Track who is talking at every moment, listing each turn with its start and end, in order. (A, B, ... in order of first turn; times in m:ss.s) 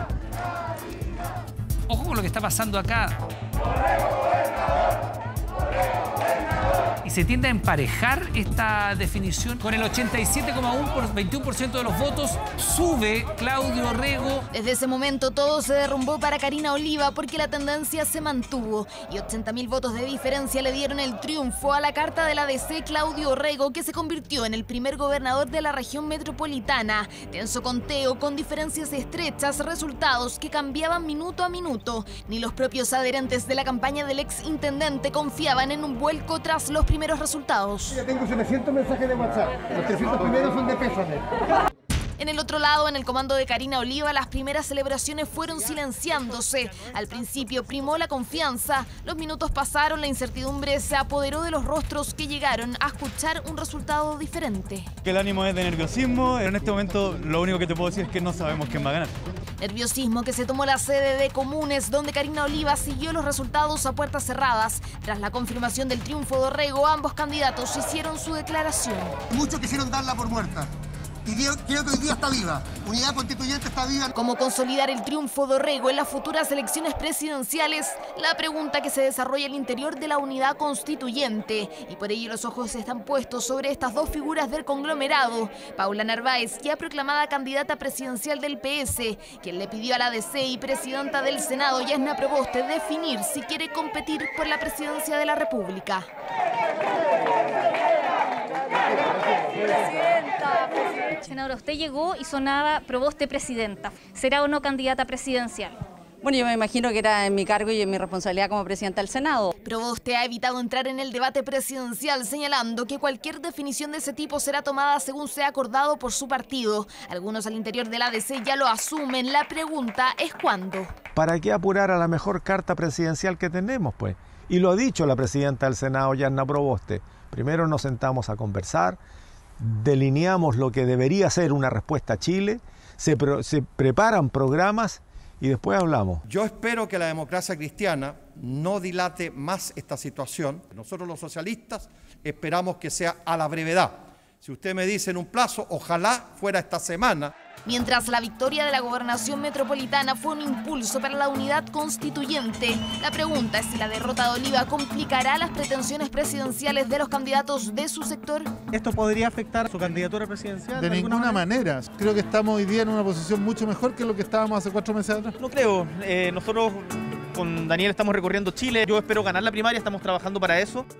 0:01.9-0:03.2 A
0:07.0-0:14.4 A
0:14.5-0:38.0 B
0:38.4-0:38.6 C
0:39.9-0:40.8 C
0:42.2-0:54.9 B
0:55.0-0:59.1 D
0:59.6-1:09.2 B
1:09.3-1:10.7 C
1:11.3-1:14.1 C
1:14.2-1:36.1 B
1:41.1-1:45.8 E
1:46.2-1:49.5 F
1:49.6-2:00.9 B
2:01.2-2:09.0 G
2:09.6-2:16.2 G
2:16.3-2:27.3 H
2:27.7-2:38.5 B
2:38.7-2:41.5 I
2:40.8-2:45.4 J
2:45.4-2:50.9 I